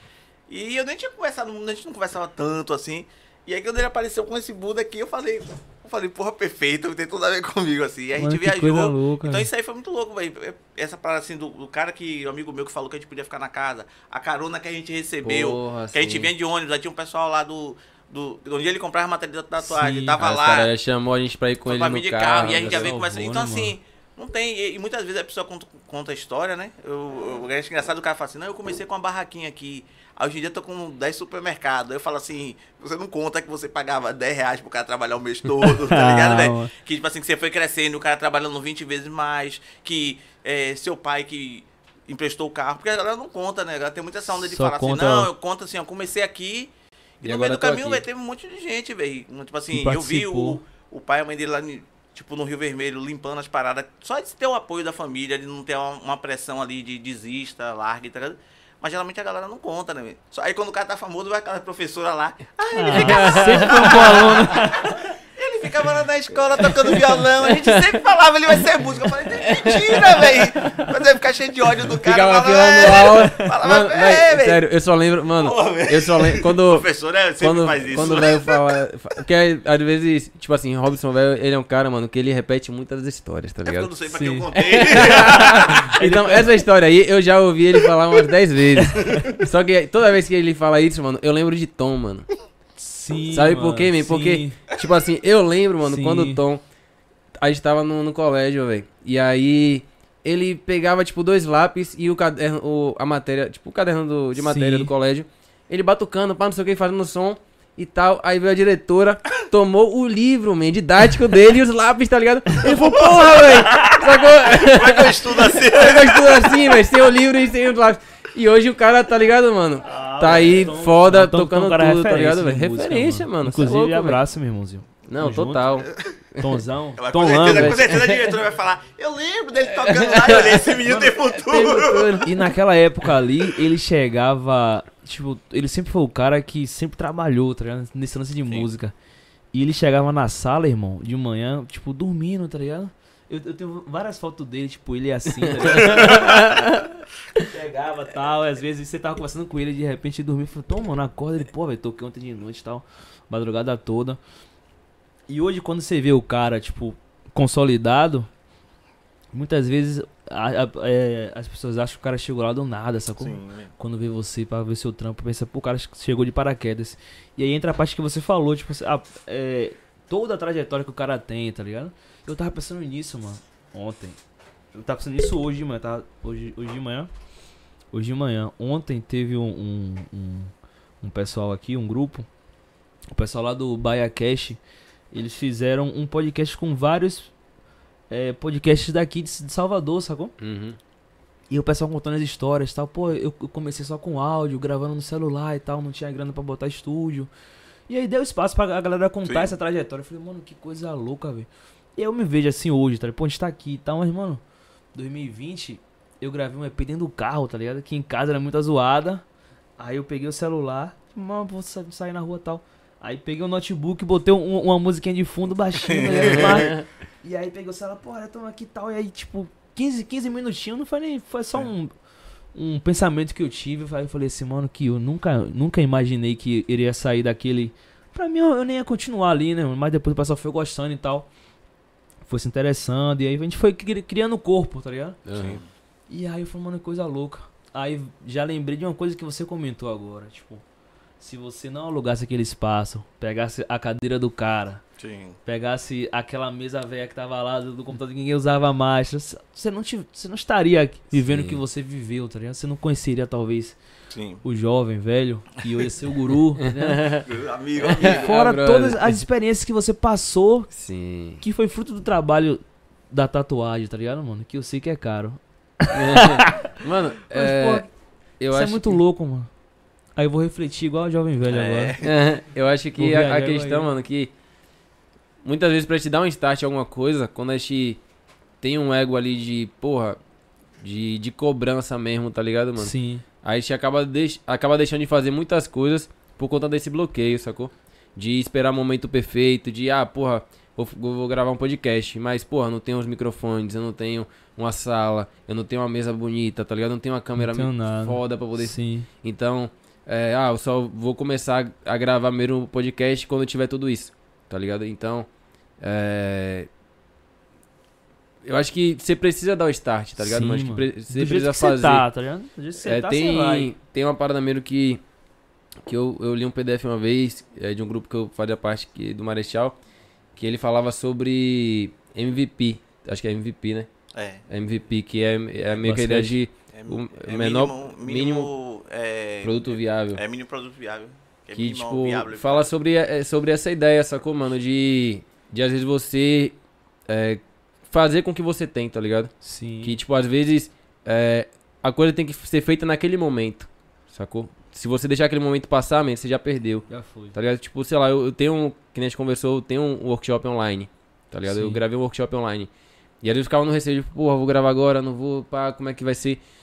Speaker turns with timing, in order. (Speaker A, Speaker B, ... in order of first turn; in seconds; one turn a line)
Speaker A: 0.5-20.7
Speaker B: 8.2-9.5
Speaker C: 15.2-16.3
Speaker B: 19.6-20.1
Speaker C: 20.2-23.0
Speaker A: 21.7-74.6
Speaker B: 22.7-23.7
Speaker B: 35.6-36.7
Speaker B: 44.4-45.3
Speaker C: 47.2-48.0
Speaker B: 49.7-50.6
Speaker B: 62.7-65.0
Speaker C: 62.9-64.2
Speaker C: 66.6-68.0
Speaker C: 69.3-70.9
Speaker C: 71.8-76.8
Speaker A: 75.4-78.6
Speaker C: 77.4-83.9
Speaker A: 83.7-85.9
Speaker B: 84.1-84.5
Speaker C: 84.5-92.3
Speaker B: 85.9-86.5
Speaker B: 88.8-89.1
Speaker B: 92.8-94.6
Speaker C: 93.3-96.6
Speaker B: 95.8-96.4
Speaker C: 97.4-124.2
Speaker B: 104.4-104.9
Speaker A: 112.6-116.9
Speaker B: 119.8-125.8
Speaker C: 125.1-126.6
Speaker B: 126.4-127.8
Speaker A: 127.0-132.2
Speaker C: 127.5-128.4
Speaker C: 129.7-132.4
Speaker B: 132.2-138.9
Speaker B: 139.5-146.5
Speaker C: 145.7-146.8
Speaker B: 147.4-154.2
Speaker B: 155.3-158.3
Speaker B: 159.3-174.2
Speaker A: 163.2-163.7
Speaker B: 174.7-177.1
Speaker B: 177.9-182.3
Speaker B: 183.1-184.6
Speaker B: 185.1-187.3
Speaker B: 188.1-190.3
Speaker C: 190.4-190.8
Speaker B: 191.5-197.3
Speaker B: 197.9-204.4
Speaker A: 199.2-199.6
Speaker B: 204.9-209.2
Speaker B: 209.8-221.9
Speaker A: 215.8-216.7
Speaker C: 216.3-216.8
Speaker B: 222.5-231.3
Speaker B: 232.3-235.2
Speaker C: 235.3-235.6
Speaker A: 235.3-235.7
Speaker B: 236.1-240.6
Speaker B: 241.2-244.8
Speaker A: 245.0-245.4
Speaker B: 245.4-253.8
Speaker C: 251.1-251.6
Speaker A: 254.1-254.4
Speaker B: 254.4-257.1
Speaker C: 256.8-257.3
Speaker A: 257.3-258.4
Speaker C: 257.8-259.2
Speaker B: 258.0-260.7
Speaker C: 260.7-261.4
Speaker B: 261.4-266.7
Speaker C: 265.9-267.9
Speaker B: 267.3-267.9
Speaker C: 268.4-269.0
Speaker B: 268.5-269.5
Speaker B: 270.2-272.0
Speaker A: 271.5-272.1
Speaker C: 272.0-274.3
Speaker B: 273.0-273.9
Speaker C: 275.4-278.0
Speaker C: 278.6-280.2
Speaker C: 280.8-305.3
Speaker B: 282.8-283.2
Speaker B: 297.4-299.1
Speaker C: 305.8-306.7
Speaker C: 308.4-312.1
Speaker B: 310.2-313.7
Speaker C: 312.8-315.0
Speaker C: 315.8-319.8
Speaker C: 320.4-323.9
Speaker A: 324.1-324.5
Speaker C: 324.5-328.5
Speaker B: 325.8-326.4
Speaker A: 326.7-332.7
Speaker C: 329.4-330.2
Speaker C: 331.5-336.6
Speaker C: 337.1-352.7
Speaker B: 339.4-340.0
Speaker B: 346.9-347.4
Speaker B: 351.5-351.8
Speaker C: 353.2-356.4